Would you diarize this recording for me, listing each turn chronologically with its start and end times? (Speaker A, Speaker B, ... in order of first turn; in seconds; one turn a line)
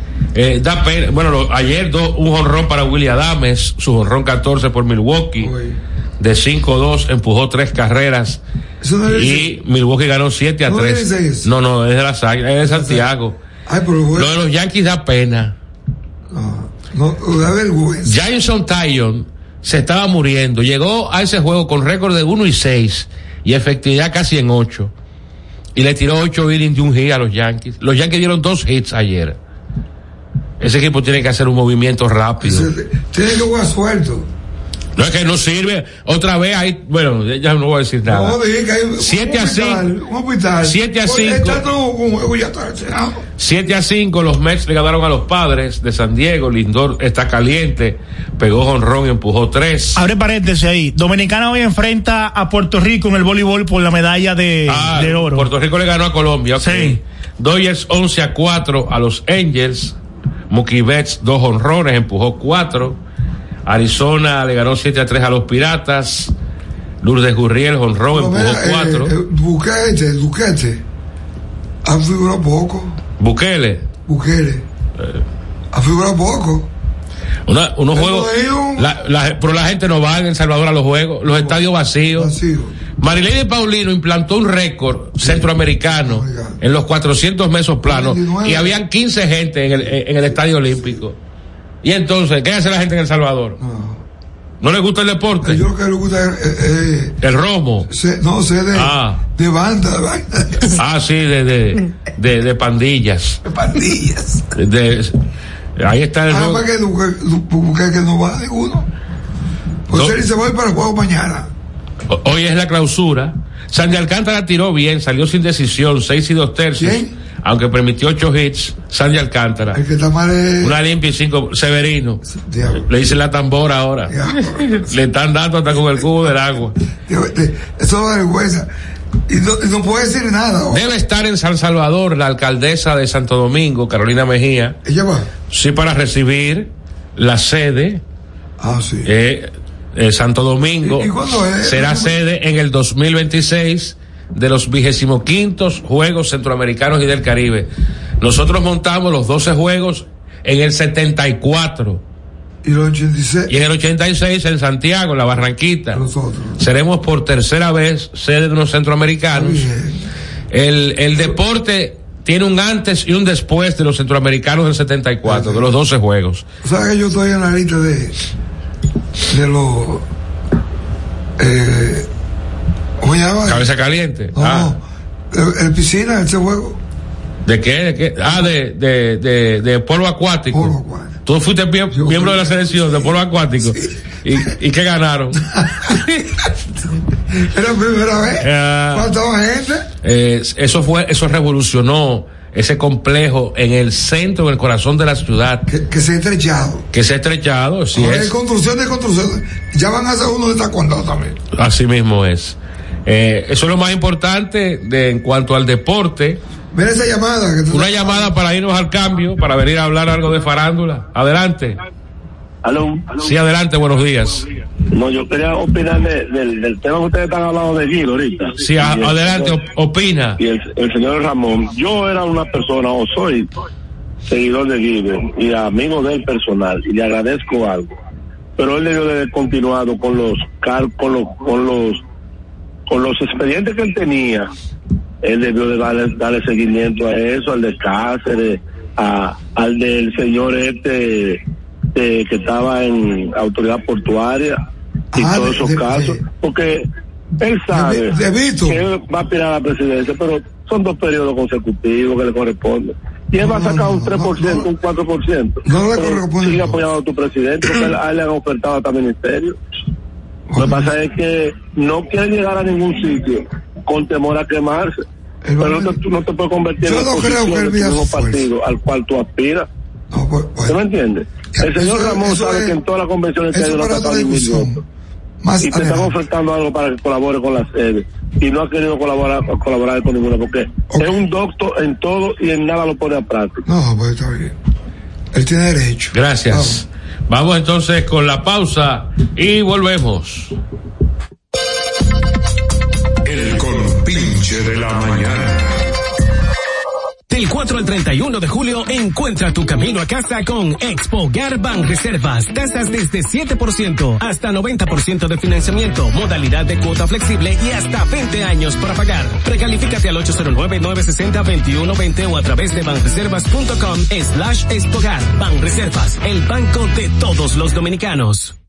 Speaker A: 0.3-5.5
Speaker B: 5.4-5.8
Speaker A: 6.2-8.4
Speaker B: 8.8-9.5
Speaker A: 9.1-13.4
Speaker B: 10.7-11.5
Speaker B: 12.6-13.1
Speaker B: 13.7-14.3
Speaker A: 14.2-15.6
Speaker B: 16.3-18.2
Speaker A: 18.1-24.9
Speaker A: 25.8-29.4
Speaker A: 30.6-32.7
Speaker B: 32.4-34.3
Speaker A: 35.0-38.4
Speaker B: 38.0-43.2
Speaker A: 39.0-39.9
Speaker A: 40.6-41.6
Speaker A: 43.4-50.0
Speaker C: 50.0-55.5
Speaker A: 54.7-60.0
Speaker C: 56.6-57.0
Speaker A: 60.5-63.0
Speaker A: 63.6-66.3
Speaker A: 67.0-69.1
Speaker B: 68.1-70.8
Speaker B: 71.8-73.0
Speaker A: 73.2-73.8
Speaker B: 74.1-74.7
Speaker B: 75.7-76.7
Speaker A: 77.5-82.3
Speaker B: 77.9-78.9
Speaker B: 81.3-81.6
Speaker B: 82.1-82.9
Speaker A: 83.0-91.2
Speaker B: 85.2-86.6
Speaker B: 87.8-88.8
Speaker A: 91.8-93.6
Speaker B: 93.6-94.0
Speaker A: 94.6-95.6
Speaker B: 95.4-97.2
Speaker A: 97.2-97.9
Speaker B: 97.9-100.8
Speaker A: 98.7-99.2
Speaker A: 100.7-103.4
Speaker B: 103.5-104.5
Speaker A: 104.5-105.2
Speaker A: 105.8-106.7
Speaker B: 106.3-108.9
Speaker B: 109.9-111.5
Speaker A: 109.9-110.2
Speaker A: 112.1-119.8
Speaker B: 116.8-117.1
Speaker B: 119.7-120.8
Speaker A: 120.6-122.2
Speaker B: 122.2-122.9
Speaker A: 122.8-124.2
Speaker B: 124.1-124.9
Speaker A: 124.8-126.8
Speaker B: 127.1-128.7
Speaker B: 129.3-130.9
Speaker A: 130.7-134.8
Speaker B: 134.8-135.3
Speaker A: 135.5-138.0
Speaker B: 138.6-139.1
Speaker A: 139.1-147.7
Speaker B: 140.8-142.1
Speaker A: 148.2-152.0
Speaker B: 152.6-153.5
Speaker A: 153.5-156.0
Speaker B: 155.9-156.6
Speaker A: 156.6-159.7
Speaker B: 159.3-160.1
Speaker A: 160.5-166.4
Speaker B: 165.2-165.7
Speaker B: 166.6-168.2
Speaker B: 169.3-170.1
Speaker B: 171.4-172.1
Speaker B: 173.0-173.7
Speaker A: 173.5-174.7
Speaker B: 174.3-176.8
Speaker A: 177.4-180.8
Speaker B: 180.5-181.2
Speaker A: 181.3-185.4
Speaker B: 181.9-183.9
Speaker B: 185.5-186.0
Speaker B: 187.3-189.9
Speaker A: 188.4-189.1
Speaker A: 190.0-195.7
Speaker B: 195.7-196.9
Speaker A: 196.9-198.3
Speaker B: 197.9-201.4
Speaker A: 201.5-206.4
Speaker B: 206.7-208.3
Speaker A: 207.7-211.8
Speaker D: 212.6-213.2
Speaker A: 213.2-214.4
Speaker D: 214.9-219.5
Speaker A: 218.6-220.4
Speaker D: 220.4-223.5
Speaker D: 224.3-227.9
Speaker D: 228.6-232.0
Speaker D: 232.9-234.5
Speaker D: 235.2-241.4
Speaker D: 241.9-244.6
Speaker B: 245.2-246.2
Speaker D: 245.2-246.9
Speaker D: 247.4-248.2
Speaker B: 247.7-248.8
Speaker D: 248.7-259.6
Speaker B: 253.4-254.7
Speaker B: 255.7-256.8
Speaker B: 260.5-260.9
Speaker D: 260.6-265.0
Speaker B: 265.4-266.0
Speaker D: 265.6-269.7
Speaker B: 266.8-268.5
Speaker B: 270.1-270.8
Speaker D: 270.7-274.8
Speaker B: 271.6-272.8
Speaker B: 273.5-274.8
Speaker B: 275.4-276.1
Speaker D: 275.6-283.6
Speaker B: 280.9-281.2
Speaker B: 283.7-284.6
Speaker B: 285.3-286.8
Speaker A: 286.1-290.6
Speaker E: 293.2-295.8
Speaker F: 297.3-318.5